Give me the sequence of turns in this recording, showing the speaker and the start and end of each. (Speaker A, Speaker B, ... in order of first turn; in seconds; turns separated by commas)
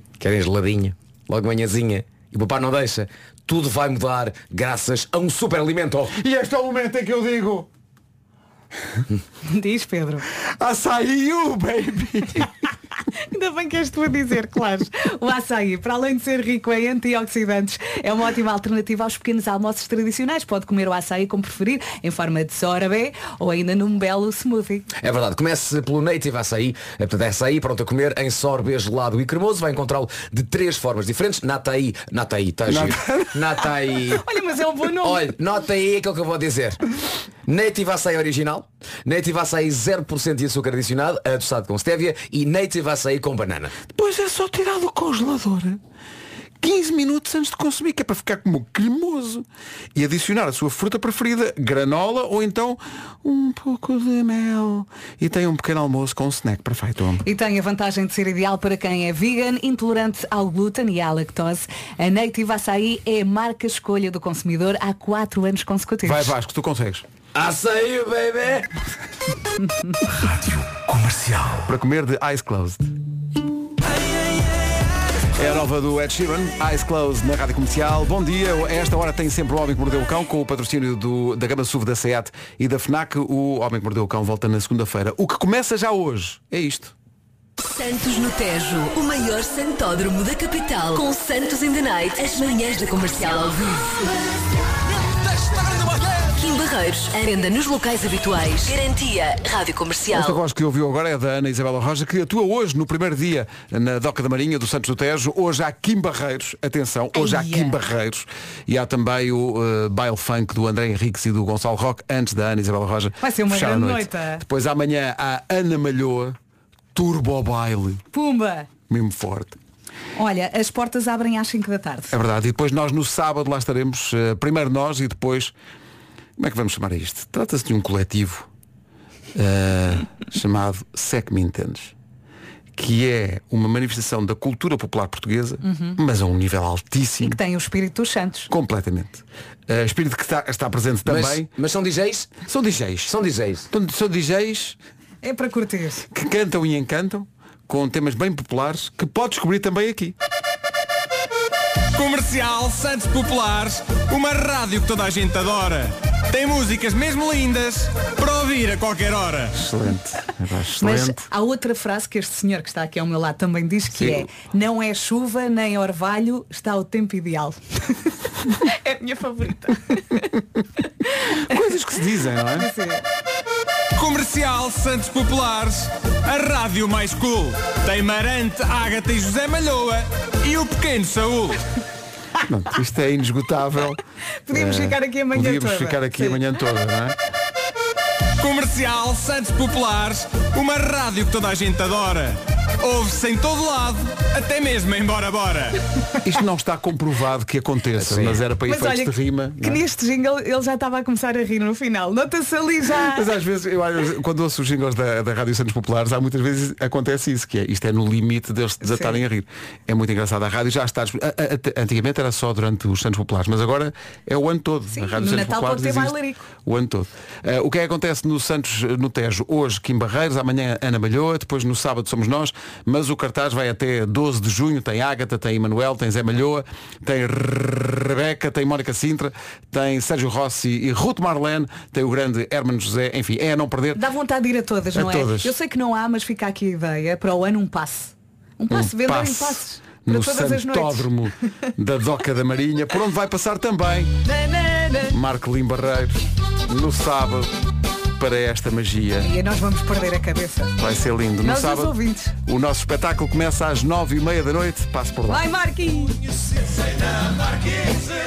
Speaker A: 0.2-6.1, Speaker B: 6.1-7.7, Speaker C: 9.4-10.2, Speaker B: 10.6-12.5, Speaker C: 13.3-24.9, Speaker A: 25.0-34.2, Speaker B: 32.7-33.4, Speaker C: 34.1-35.2, Speaker A: 35.0-36.8, Speaker A: 37.5-43.7, Speaker B: 43.9-45.8, Speaker B: 46.6-57.2, Speaker C: 57.2-66.3, Speaker B: 66.0-67.0, Speaker A: 67.3-68.7, Speaker A: 71.0-71.5, Speaker B: 71.5-72.9, Speaker B: 75.3-86.9, Speaker D: 87.6-94.1, Speaker D: 96.3-100.4, Speaker B: 100.1-116.3, Speaker C: 107.1-107.8, Speaker C: 113.2-114.4, Speaker B: 116.9-118.0, Speaker C: 118.1-118.7, Speaker B: 118.9-119.5, Speaker C: 120.2-122.1, Speaker B: 122.1-125.5, Speaker B: 126.4-128.5, Speaker B: 129.3-131.9, Speaker B: 132.8-137.4, Speaker C: 135.6-136.0, Speaker C: 137.2-138.5, Speaker B: 138.5-141.5, Speaker A: 141.1-142.4, Speaker B: 142.4-143.1, Speaker A: 143.1-143.7, Speaker B: 143.7-144.8, Speaker C: 145.2-146.1, Speaker B: 146.1-150.1, Speaker E: 151.9-159.6, Speaker B: 159.5-161.2, Speaker C: 160.8-170.3, Speaker B: 171.4-172.7, Speaker C: 172.5-173.0, Speaker E: 173.9-181.6, Speaker B: 182.5-184.0, Speaker C: 184.5-186.4, Speaker B: 184.5-187.2, Speaker E: 188.4-195.8, Speaker B: 196.2-199.8, Speaker A: 197.9-198.4, Speaker C: 198.7-203.3, Speaker B: 203.1-234.0, Speaker C: 208.8-209.2, Speaker C: 214.9-216.5, Speaker C: 233.9-241.1, Speaker B: 234.9-235.5, Speaker B: 238.7-244.2, Speaker C: 244.2-245.1, Speaker B: 245.1-247.5, Speaker B: 248.2-249.3, Speaker C: 249.2-250.7, Speaker B: 250.8-255.4, Speaker C: 251.4-252.3, Speaker C: 255.3-256.2